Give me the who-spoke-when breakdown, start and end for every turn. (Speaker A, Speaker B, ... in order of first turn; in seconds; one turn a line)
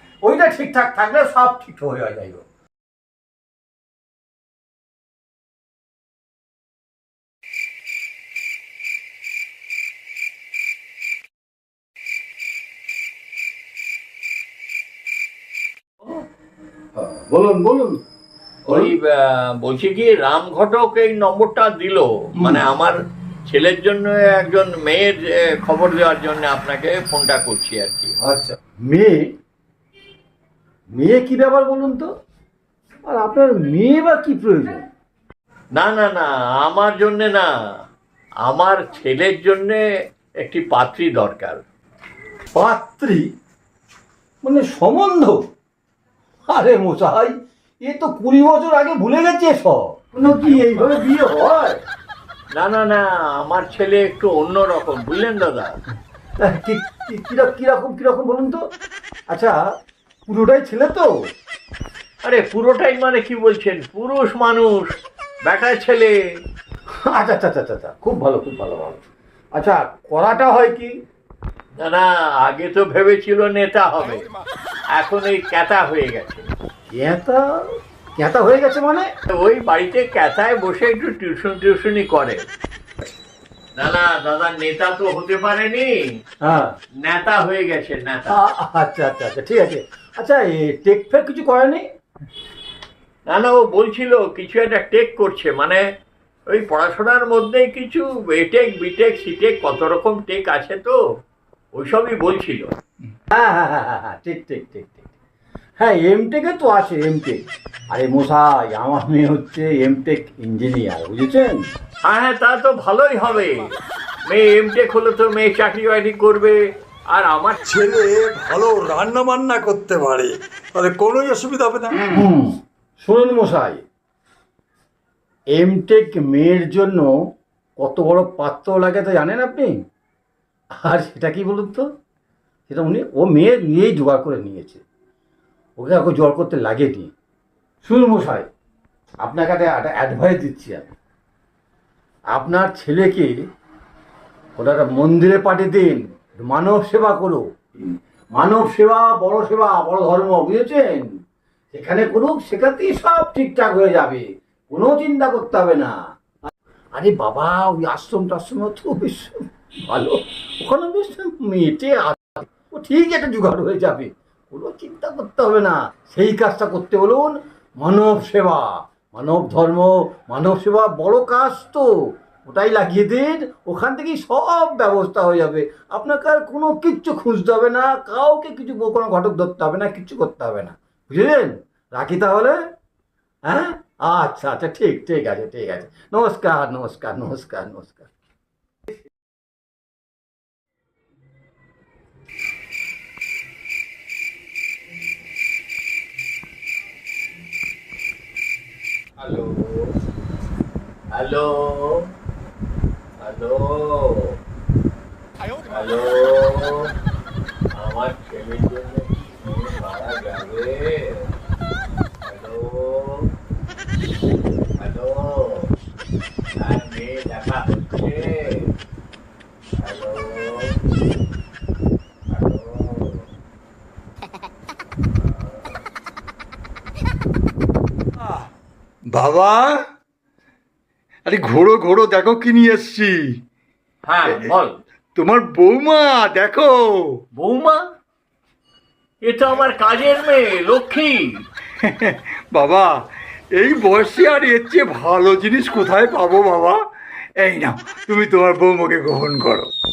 Speaker A: 0.2-2.4
Speaker A: 16.9-18.0
Speaker B: 18.7-28.1
Speaker A: 18.7-18.9
Speaker A: 28.2-29.3
Speaker A: 30.9-32.1
Speaker A: 33.0-34.9
Speaker B: 35.8-37.5
Speaker B: 38.4-39.8
Speaker B: 40.4-41.6
Speaker A: 42.5-43.3
Speaker A: 44.4-45.4
Speaker A: 46.5-51.8
Speaker B: 52.5-55.7
Speaker A: 56.4-58.6
Speaker A: 59.3-59.6
Speaker A: 60.3-61.1
Speaker B: 62.2-66.2
Speaker A: 67.0-69.0
Speaker A: 69.5-70.9
Speaker B: 71.8-74.2
Speaker B: 74.9-76.5
Speaker A: 76.9-79.1
Speaker B: 79.3-82.4
Speaker B: 83.8-85.9
Speaker A: 86.4-86.7
Speaker B: 87.0-88.4
Speaker A: 88.3-91.8
Speaker B: 93.3-95.8
Speaker B: 96.5-101.0
Speaker B: 101.7-102.7
Speaker A: 103.3-105.1
Speaker A: 105.8-111.6
Speaker B: 112.0-113.7
Speaker B: 114.3-117.6
Speaker C: 117.6-122.2
Speaker A: 122.0-123.8
Speaker A: 125.5-127.1
Speaker A: 127.8-129.7
Speaker A: 130.8-131.8
Speaker A: 132.7-134.8
Speaker A: 135.8-137.1
Speaker A: 137.8-138.5
Speaker A: 139.2-140.9
Speaker A: 142.3-143.3
Speaker A: 144.6-151.1
Speaker A: 151.7-155.9
Speaker A: 156.9-171.9
Speaker A: 172.5-182.6
Speaker A: 183.5-188.1
Speaker B: 199.2-199.9
Speaker B: 201.1-202.1
Speaker B: 203.2-204.4
Speaker B: 205.7-206.9
Speaker B: 207.7-211.3
Speaker B: 212.2-213.3
Speaker B: 214.8-215.7
Speaker B: 216.6-218.7
Speaker B: 219.8-220.8
Speaker B: 222.3-223.3
Speaker B: 225.2-225.8
Speaker C: 229.1-229.8
Speaker C: 231.3-233.2
Speaker B: 234.1-234.8
Speaker C: 235.2-237.2
Speaker B: 237.3-237.8
Speaker B: 239.2-241.3
Speaker C: 241.8-249.7